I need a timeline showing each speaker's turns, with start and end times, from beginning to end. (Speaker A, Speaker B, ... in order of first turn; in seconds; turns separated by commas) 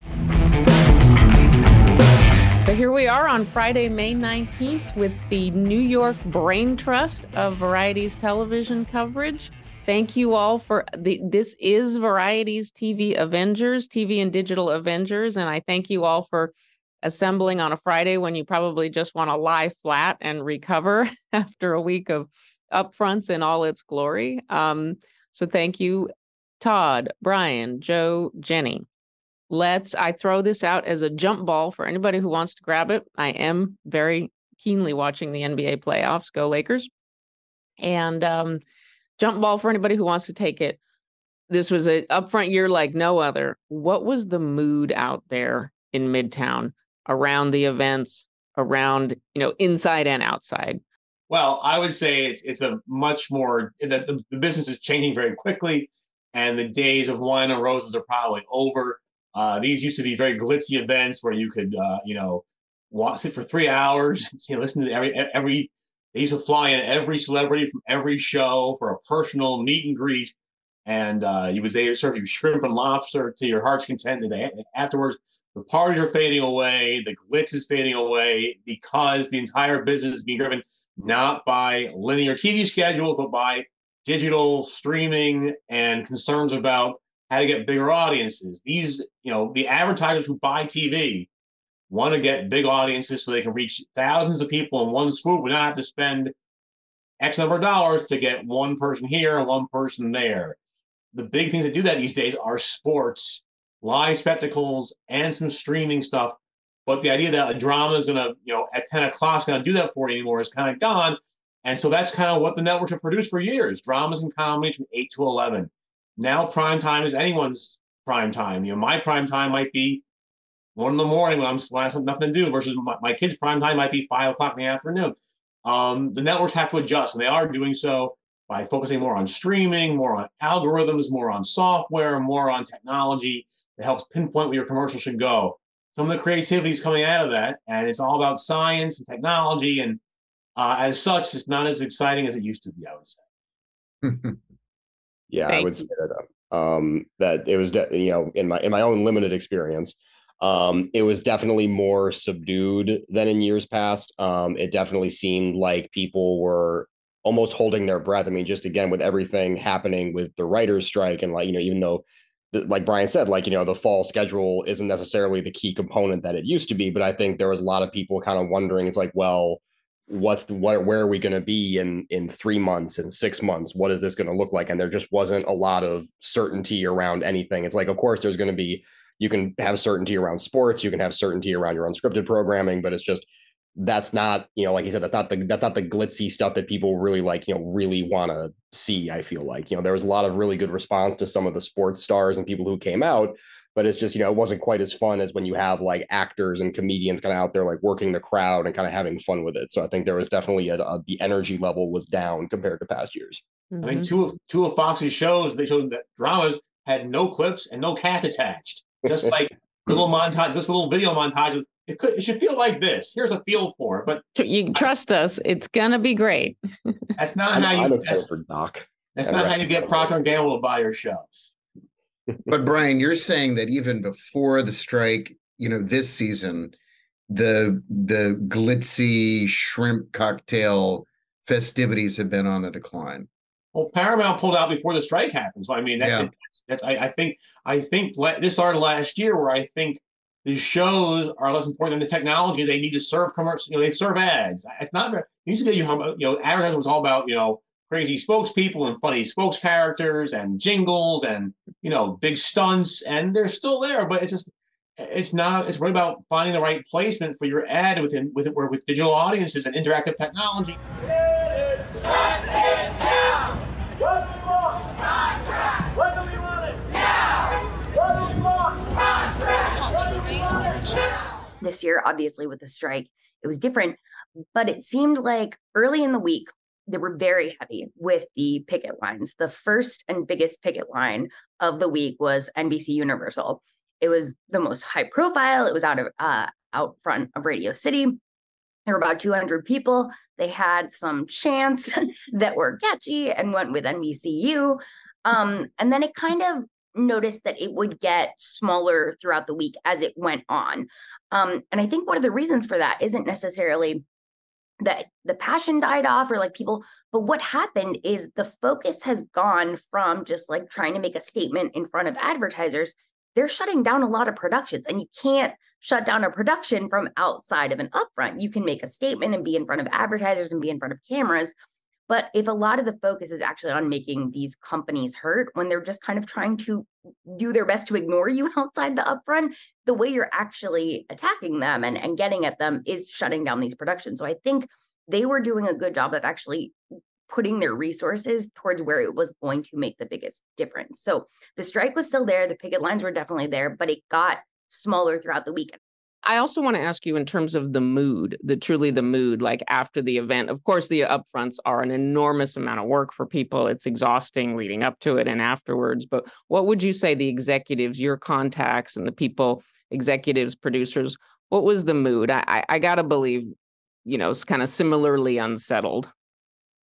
Speaker A: 2.6-28.9, Speaker A: 29.5-36.9, Speaker A: 37.8-38.6, Speaker A: 39.2-40.8, Speaker A: 41.5-50.8, Speaker B: 51.3-70.3, Speaker B: 70.8-91.3, Speaker B: 91.9-96.3, Speaker B: 97.2-100.6, Speaker B: 101.1-120.0, Speaker B: 120.7-140.0, Speaker B: 140.6-143.2, Speaker C: 144.0-144.4, Speaker D: 145.3-183.2, Speaker A: 145.5-145.8, Speaker D: 183.8-203.4, Speaker A: 203.7-204.1, Speaker B: 203.8-214.2, Speaker A: 214.3-216.9, Speaker B: 217.2-218.3, Speaker D: 217.5-220.2, Speaker B: 219.1-221.5, Speaker C: 222.5-226.7, Speaker C: 227.3-233.3, Speaker B: 233.7-260.8, Speaker C: 236.0-236.3, Speaker E: 271.6-274.0, Speaker E: 274.5-288.2, Speaker E: 288.9-304.0, Speaker E: 304.8-321.5, Speaker E: 322.1-336.8, Speaker E: 337.3-345.8, Speaker A: 346.2-363.5, Speaker A: 364.1-366.1